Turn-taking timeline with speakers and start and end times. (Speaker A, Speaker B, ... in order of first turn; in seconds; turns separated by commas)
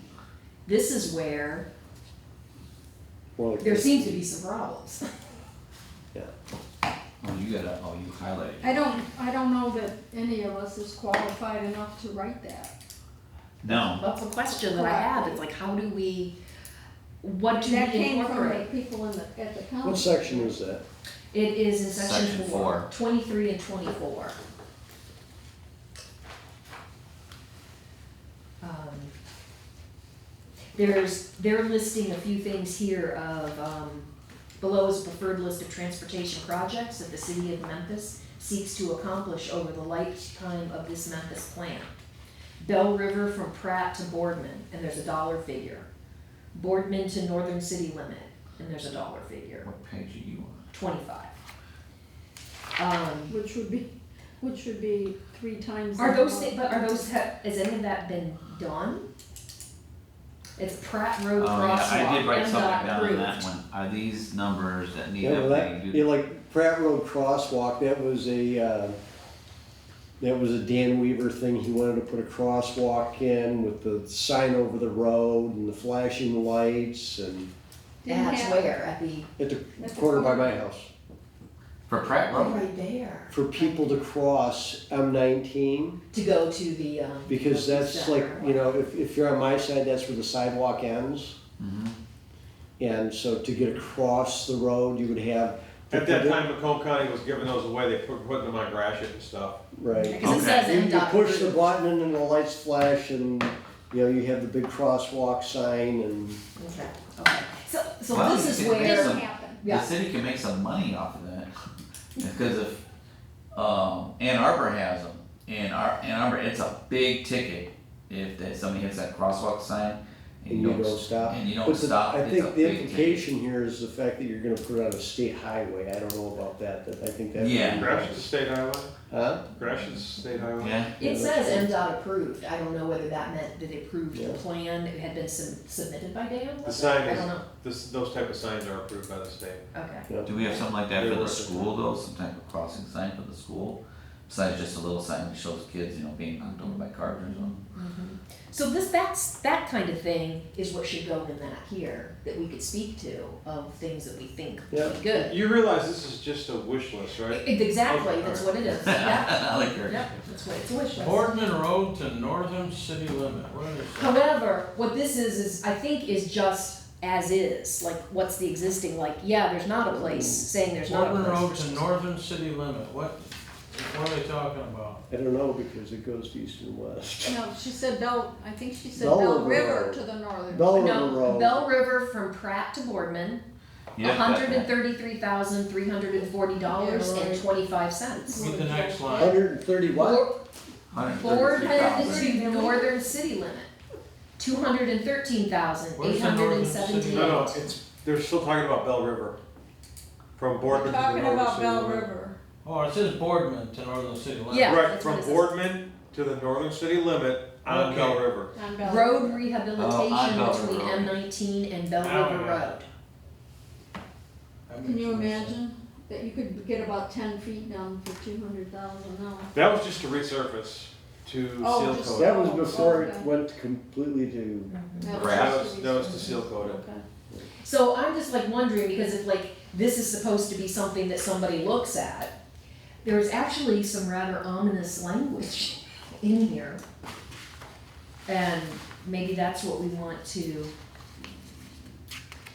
Speaker A: 0.7-1.7, Speaker B: 3.4-4.2, Speaker A: 3.6-5.0, Speaker C: 7.2-9.1, Speaker D: 8.6-12.7, Speaker C: 13.6-14.0, Speaker A: 13.7-16.4, Speaker D: 14.5-15.4, Speaker A: 17.2-18.7, Speaker D: 17.4-20.6, Speaker B: 19.8-20.8, Speaker A: 21.3-24.4, Speaker C: 21.9-22.9, Speaker A: 28.6-29.1, Speaker A: 30.8-34.1, Speaker A: 34.6-41.9, Speaker A: 42.6-45.9, Speaker A: 46.5-49.7, Speaker C: 49.6-50.6, Speaker A: 50.7-51.3, Speaker A: 52.8-53.4, Speaker D: 53.3-57.1, Speaker A: 56.0-59.0, Speaker A: 60.6-63.4, Speaker C: 61.4-66.0, Speaker B: 65.2-69.0, Speaker B: 70.2-77.5, Speaker D: 78.0-78.8, Speaker A: 78.1-79.3, Speaker B: 79.4-80.9, Speaker D: 79.8-80.6, Speaker C: 81.9-82.6, Speaker A: 82.3-83.9, Speaker B: 83.3-86.0, Speaker A: 86.1-88.6, Speaker B: 87.3-91.3, Speaker C: 91.6-92.0, Speaker B: 92.8-96.4, Speaker E: 95.9-99.6, Speaker B: 99.7-106.4, Speaker A: 100.0-101.6, Speaker C: 100.2-100.7, Speaker A: 106.6-109.9, Speaker C: 108.1-111.5, Speaker D: 108.6-109.6, Speaker C: 112.2-112.8, Speaker C: 113.5-123.3, Speaker B: 120.5-128.2, Speaker C: 127.3-127.9, Speaker E: 127.8-128.9, Speaker B: 129.1-129.5, Speaker E: 129.5-130.9, Speaker C: 130.6-130.9, Speaker A: 131.0-137.4, Speaker B: 131.0-131.7, Speaker B: 134.1-134.4, Speaker E: 136.6-139.6, Speaker A: 139.7-140.1, Speaker C: 140.2-147.6, Speaker E: 140.6-141.7, Speaker A: 146.4-155.4, Speaker E: 155.1-158.5, Speaker A: 157.3-161.5, Speaker C: 158.7-160.1, Speaker F: 160.9-164.1, Speaker A: 164.0-171.8, Speaker B: 169.9-170.5, Speaker F: 170.9-175.0, Speaker B: 175.1-177.4, Speaker D: 177.2-181.0, Speaker B: 179.0-181.7, Speaker A: 180.8-183.4, Speaker C: 183.9-184.7, Speaker A: 184.0-188.5, Speaker D: 186.7-187.5, Speaker D: 188.3-189.5, Speaker F: 188.3-189.3, Speaker B: 189.1-190.2, Speaker A: 189.9-190.4, Speaker C: 190.9-192.4, Speaker A: 191.1-193.7, Speaker D: 191.6-193.1, Speaker A: 194.4-197.7, Speaker F: 196.0-197.5, Speaker E: 197.1-199.4, Speaker E: 200.4-202.1, Speaker D: 200.7-202.4, Speaker F: 202.6-204.8, Speaker A: 204.5-205.5, Speaker E: 204.6-208.5, Speaker F: 207.7-208.3, Speaker D: 208.5-209.4, Speaker A: 208.8-212.9, Speaker C: 209.8-211.1, Speaker F: 212.0-212.7, Speaker F: 214.7-215.6, Speaker D: 214.8-219.5, Speaker E: 219.5-223.1, Speaker D: 221.6-223.3, Speaker B: 222.2-224.7, Speaker A: 224.7-225.2, Speaker D: 225.0-227.0, Speaker C: 225.1-225.6, Speaker E: 225.1-226.8, Speaker A: 227.6-232.3, Speaker A: 233.0-236.8, Speaker A: 238.3-240.7